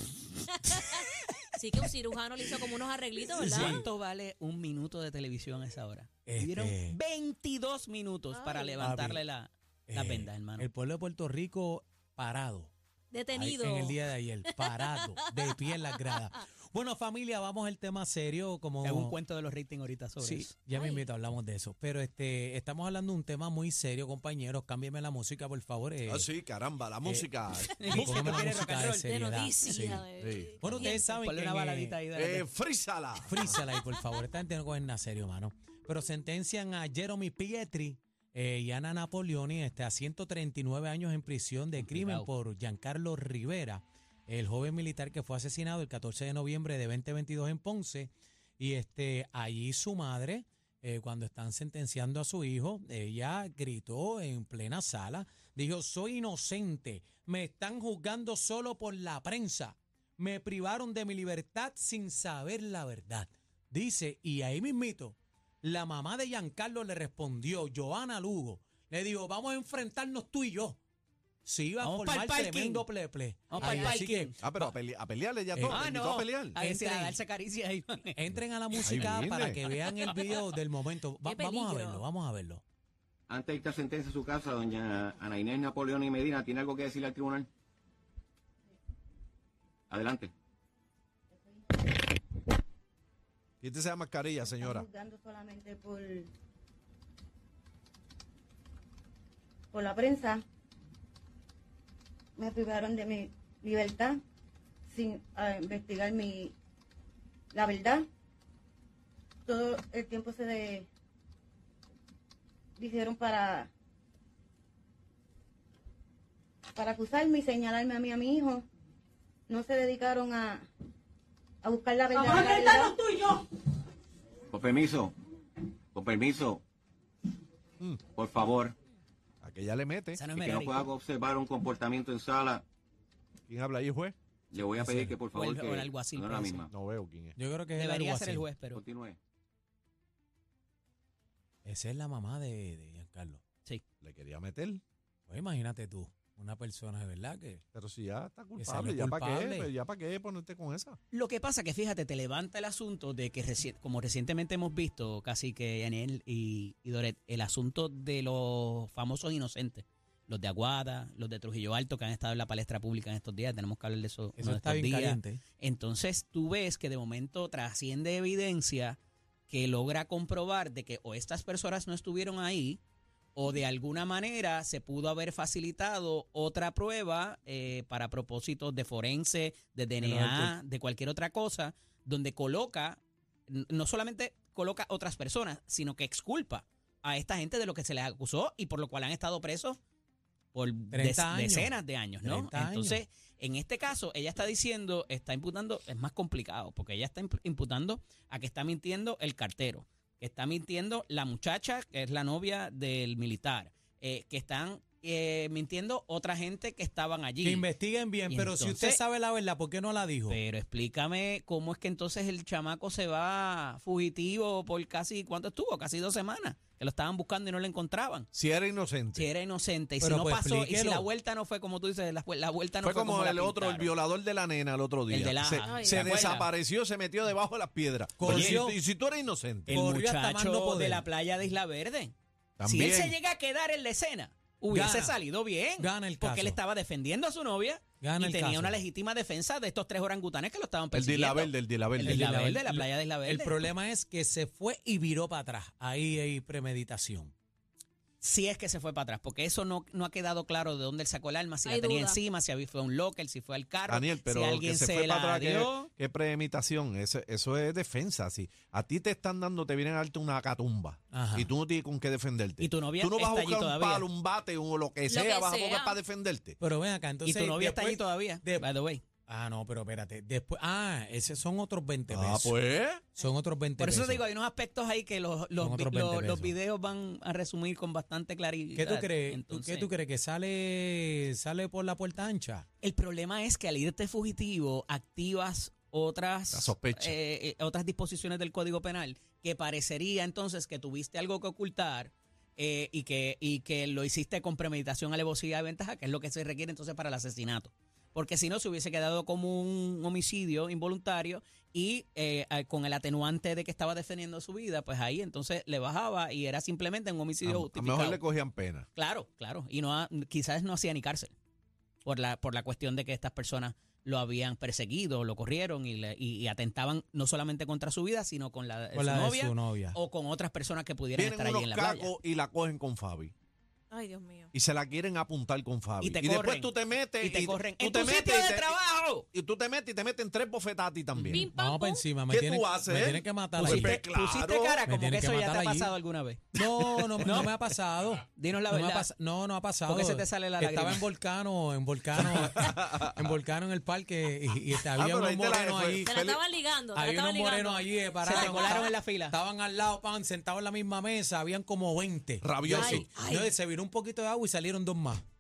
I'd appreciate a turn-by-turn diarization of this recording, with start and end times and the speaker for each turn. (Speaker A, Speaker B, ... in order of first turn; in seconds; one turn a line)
Speaker A: 0.7-3.8
Speaker B: 3.4-3.8
Speaker C: 3.4-10.7
Speaker B: 6.3-7.0
Speaker A: 8.3-8.8
Speaker B: 8.8-9.2
Speaker B: 9.9-12.7
Speaker A: 13.1-16.2
Speaker B: 13.3-19.2
Speaker C: 18.8-20.5
Speaker B: 20.2-26.3
Speaker A: 20.7-21.1
Speaker D: 26.1-28.4
Speaker C: 27.8-29.1
Speaker B: 27.8-30.0
Speaker A: 29.0-31.0
Speaker D: 30.2-30.5
Speaker B: 30.6-32.0
Speaker C: 30.7-32.5
Speaker D: 32.1-33.6
Speaker B: 33.2-70.8
Speaker C: 41.7-42.3
Speaker B: 71.4-74.7
Speaker C: 71.8-72.9
Speaker C: 73.5-74.4
Speaker A: 73.6-74.0
Speaker D: 74.4-76.6
Speaker B: 75.5-75.8
Speaker C: 75.7-78.2
Speaker B: 76.6-77.2
Speaker B: 78.2-82.6
Speaker C: 78.7-80.1
Speaker D: 78.8-79.6
Speaker A: 81.2-82.0
Speaker E: 83.3-87.5
Speaker E: 89.9-90.3
Speaker F: 91.6-91.9
Speaker D: 93.6-94.8
Speaker F: 94.5-96.3
Speaker F: 99.7-100.4
Speaker F: 102.4-104.2
Speaker F: 104.9-106.5
Speaker F: 107.5-108.0
Speaker F: 109.5-110.9
Speaker F: 112.8-113.7
Speaker F: 116.8-118.6
Speaker F: 119.5-120.6
Speaker F: 121.6-122.9
Speaker A: 122.1-123.4
Speaker E: 124.5-125.1
Speaker E: 125.9-126.6
Speaker E: 128.1-128.7
Speaker D: 129.4-130.2
Speaker C: 130.1-130.9
Speaker E: 130.3-132.6
Speaker D: 133.5-134.2
Speaker E: 134.5-136.7
Speaker B: 134.8-135.2
Speaker C: 135.3-136.7
Speaker D: 136.7-137.4
Speaker B: 137.4-138.5
Speaker C: 137.8-138.8
Speaker E: 138.7-139.2
Speaker B: 141.6-143.4
Speaker D: 144.0-144.8
Speaker B: 145.3-147.6
Speaker D: 147.7-151.0
Speaker B: 148.6-149.7
Speaker C: 151.1-172.8
Speaker B: 164.4-165.4
Speaker C: 173.3-189.8
Speaker B: 180.0-180.5
Speaker C: 190.5-207.7
Speaker B: 190.9-193.0
Speaker B: 207.4-210.4
Speaker C: 208.3-209.0
Speaker C: 210.3-218.3
Speaker D: 218.3-219.3
Speaker C: 219.2-223.9
Speaker B: 220.0-221.1
Speaker D: 222.8-229.7
Speaker C: 225.1-226.5
Speaker A: 225.6-226.1
Speaker B: 228.2-228.8
Speaker C: 228.2-228.6
Speaker C: 229.7-232.1
Speaker B: 229.7-231.1
Speaker D: 232.6-233.2
Speaker C: 232.7-243.6
Speaker B: 234.7-235.2
Speaker B: 235.8-236.6
Speaker B: 238.0-238.8
Speaker D: 240.9-242.1
Speaker B: 242.0-247.3
Speaker C: 248.2-255.9
Speaker A: 251.7-252.2
Speaker D: 253.8-266.6
Speaker B: 261.1-261.5
Speaker C: 262.6-264.1
Speaker A: 265.1-266.0
Speaker B: 266.6-268.7
Speaker C: 267.2-269.0
Speaker B: 269.3-272.6
Speaker D: 272.1-273.0
Speaker B: 273.1-274.2
Speaker C: 273.8-279.9
Speaker B: 275.6-276.6
Speaker B: 278.8-282.7
Speaker C: 282.8-308.2
Speaker D: 286.5-287.2
Speaker D: 307.4-308.9
Speaker C: 308.9-311.3
Speaker C: 312.1-322.1
Speaker B: 318.9-320.0
Speaker D: 321.1-323.3
Speaker A: 323.9-324.5
Speaker D: 324.5-331.3
Speaker C: 326.0-329.3
Speaker C: 331.2-331.4
Speaker A: 331.3-332.1
Speaker B: 331.3-334.0
Speaker D: 332.2-334.9
Speaker C: 333.6-336.5
Speaker B: 334.9-335.9
Speaker B: 336.6-346.1
Speaker C: 337.2-337.5
Speaker C: 338.4-339.1
Speaker C: 339.9-341.1
Speaker D: 342.4-343.2
Speaker D: 344.9-346.4
Speaker A: 346.0-348.9
Speaker B: 346.9-355.2
Speaker C: 348.2-349.4
Speaker D: 352.4-353.1
Speaker C: 352.7-353.0
Speaker A: 352.7-353.5